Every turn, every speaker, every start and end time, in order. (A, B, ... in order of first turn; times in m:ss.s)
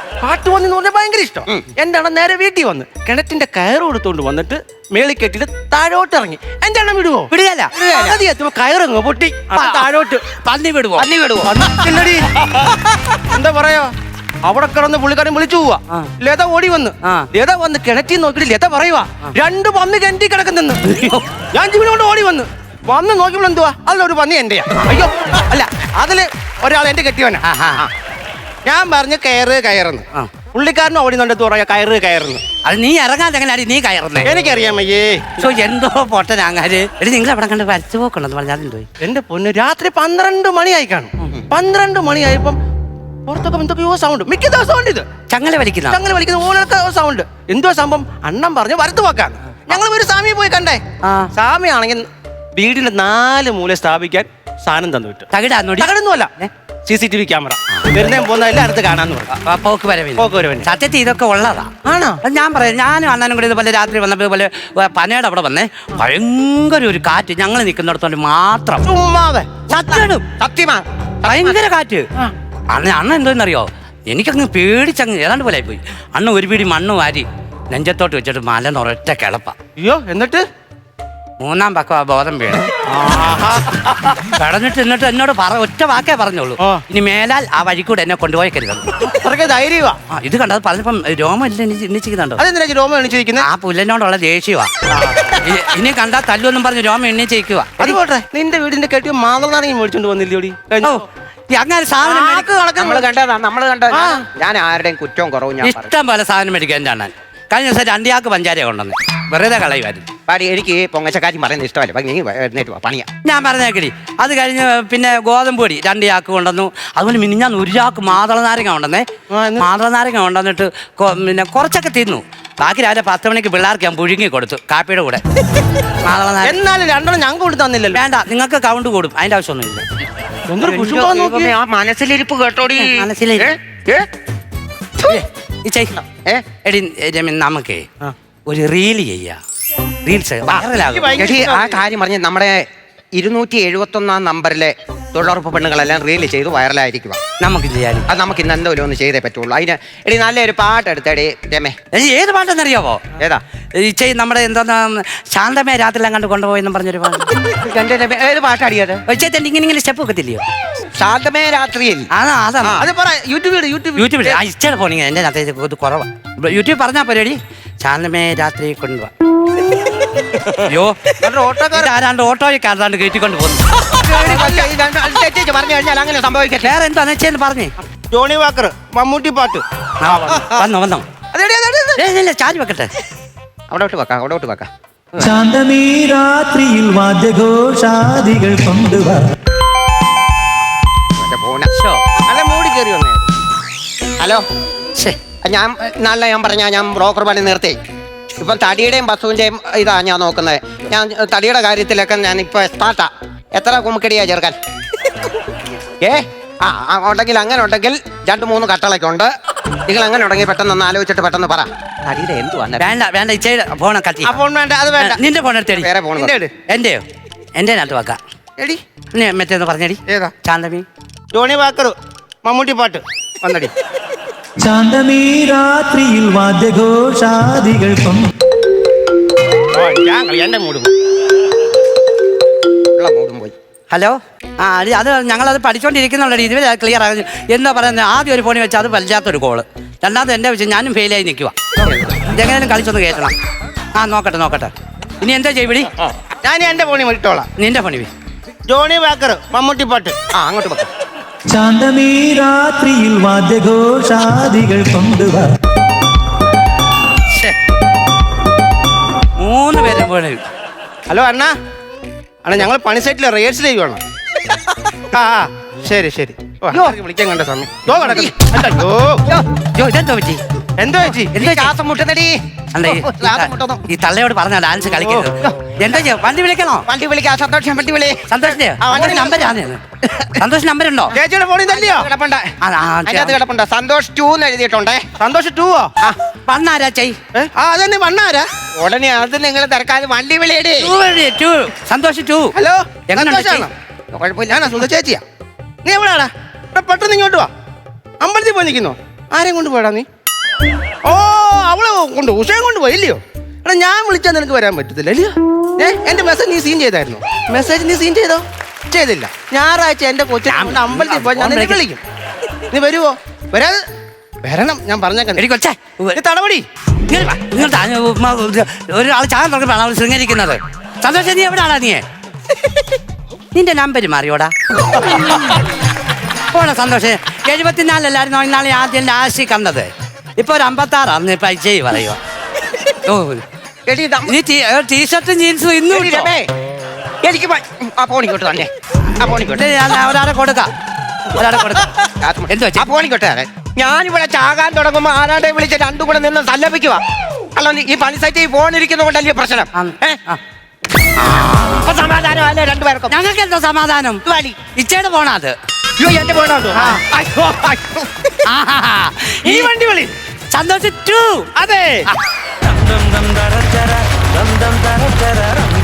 0:00.2-0:10.2 A
0:07.3-0:07.7 B
0:07.9-0:08.2 C
0:09.5-0:11.1 B
0:11.0-0:11.5 C
0:11.4-0:12.3 A
0:13.3-0:13.9 A
0:14.4-0:20.8 A
0:17.0-0:17.3 B
0:20.8-0:21.2 B
0:21.5-0:27.9 A
0:27.4-0:27.8 B
0:28.6-0:32.4 A
0:32.6-0:34.3 B
0:34.2-0:35.5 A
0:35.4-0:38.9 B
0:39.0-0:42.6 A
0:43.3-0:45.1 A
0:45.3-0:46.0 B
0:45.9-0:50.8 A
0:51.0-0:51.3 B
0:51.3-0:55.3 A
0:55.3-0:55.9 B
0:55.8-0:56.3 A
0:56.8-0:59.3 A
0:59.3-1:01.7 B
1:00.2-1:00.7 A
1:01.8-1:02.2 A
1:02.2-1:08.8 B
1:08.8-1:09.5 A
1:09.7-1:10.2 B
1:09.9-1:11.6 C
1:11.2-1:12.0 B
1:12.7-1:19.6 B
1:19.8-1:20.4 A
1:21.4-1:22.7 B
1:22.8-1:24.2 A
1:24.3-1:28.9 B
1:29.0-1:30.0 A
1:30.1-1:32.4 B
1:32.4-1:33.4 A
1:33.4-1:34.7 B
1:34.9-1:35.3 A
1:35.3-1:38.0 B
1:37.8-1:41.0 A
1:40.8-1:42.5 B
1:42.0-1:43.1 A
1:42.7-1:45.9 C
1:43.9-1:44.2 A
1:45.6-1:50.1 B
1:50.3-1:53.1 C
1:53.2-1:59.1 B
1:59.3-1:59.7 A
1:59.6-2:05.2 B
2:06.0-2:06.6 B
2:06.4-2:08.0 A
2:07.9-2:09.8 B
2:10.5-2:11.5 A
2:10.6-2:14.1 C
2:12.8-2:13.6 B
2:15.0-2:16.0 B
2:16.6-2:17.8 B
2:18.5-2:19.4 B
2:20.0-2:21.3 B
2:20.7-2:21.8 A
2:21.2-2:27.2 C
2:27.4-2:28.0 B
2:28.1-2:31.7 C
2:31.9-2:33.0 B
2:33.8-2:37.5 B
2:37.6-2:39.0 C
2:39.1-2:40.4 B
2:41.0-2:42.1 C
2:42.1-2:42.8 B
2:42.8-2:44.4 A
2:44.0-2:49.1 B
2:50.3-2:50.6 A
2:50.6-2:53.6 B
2:51.2-2:51.9 A
2:53.9-2:54.7 A
2:54.0-2:56.7 C
2:56.6-2:57.7 B
2:58.1-3:00.7 A
3:00.0-3:01.0 B
3:01.3-3:02.0 A
3:02.0-3:02.9 B
3:03.7-3:04.7 C
3:05.2-3:09.2 D
3:11.2-3:11.7 C
3:11.7-3:12.0 B
3:12.3-3:13.3 A
3:14.2-3:14.4 C
3:15.4-3:17.8 C
3:18.4-3:24.6 C
3:26.0-3:29.3 C
3:29.9-3:32.8 C
3:32.8-3:34.4 B
3:34.2-3:35.2 A
3:35.0-3:35.9 B
3:35.8-3:36.4 C
3:36.1-3:36.5 A
3:36.7-3:37.0 B
3:37.6-3:38.2 B
3:39.1-3:40.8 B
3:40.1-3:40.3 A
3:41.3-3:43.7 A
3:44.6-3:48.3 D
3:49.7-3:50.9 A
3:53.0-3:53.5 C
3:53.9-4:01.5 B
4:01.8-4:02.2 C
4:02.3-4:03.3 B
4:04.0-4:05.9 B
4:06.4-4:07.5 A
4:07.6-4:08.1 B
4:08.7-4:10.1 A
4:10.3-4:10.9 C
4:11.5-4:15.5 D
4:17.3-4:17.6 B
4:19.4-4:20.4 B
4:21.1-4:21.5 A
4:22.4-4:24.0 A
4:25.1-4:29.2 A
4:28.0-4:28.3 C
4:29.8-4:30.4 B
4:30.8-4:31.3 A
4:31.3-4:31.7 B
4:31.4-4:33.8 C
4:32.7-4:36.8 B
4:35.0-4:35.3 A
4:36.9-4:38.2 C
4:38.3-4:39.8 B
4:38.8-4:39.5 C
4:40.3-4:41.1 B
4:41.1-4:42.1 A
4:41.7-4:42.5 C
4:42.6-4:43.4 B
4:43.0-4:45.1 C
4:45.2-4:45.9 A
4:46.5-4:47.2 B
4:47.3-4:48.5 A
4:48.8-4:50.9 C
4:50.8-4:52.5 B
4:52.5-4:53.7 A
4:53.1-4:53.7 B
4:54.1-4:54.8 C
4:54.5-4:55.2 A
4:55.8-4:57.5 A
4:58.2-5:00.0 A
5:01.0-5:12.0 A
5:10.5-5:11.8 B
5:12.7-5:13.8 A
5:14.4-5:15.4 A
5:15.4-5:16.2 B
5:16.2-5:16.6 A
5:17.1-5:22.0 B
5:23.5-5:24.5 B
5:25.1-5:25.5 B
5:26.5-5:32.2 B
5:32.9-5:33.4 B
5:33.8-5:34.3 C
5:34.3-5:36.3 B
5:35.9-5:36.5 C
5:37.2-5:39.7 C
5:39.5-5:40.7 B
5:41.3-5:41.9 B
5:42.2-5:47.0 C
5:42.5-5:42.8 B
5:47.6-5:50.1 C
5:49.7-5:50.4 B
5:51.2-5:51.9 B
5:51.8-5:53.1 C
5:53.1-5:54.2 B
5:54.2-5:54.6 C
5:54.7-5:55.5 B
5:56.0-5:56.8 C
5:56.7-5:57.8 A
5:58.4-5:59.7 B
5:59.4-6:00.1 A
6:00.5-6:01.5 B
6:01.6-6:02.1 A
6:02.8-6:03.8 B
6:05.0-6:05.6 B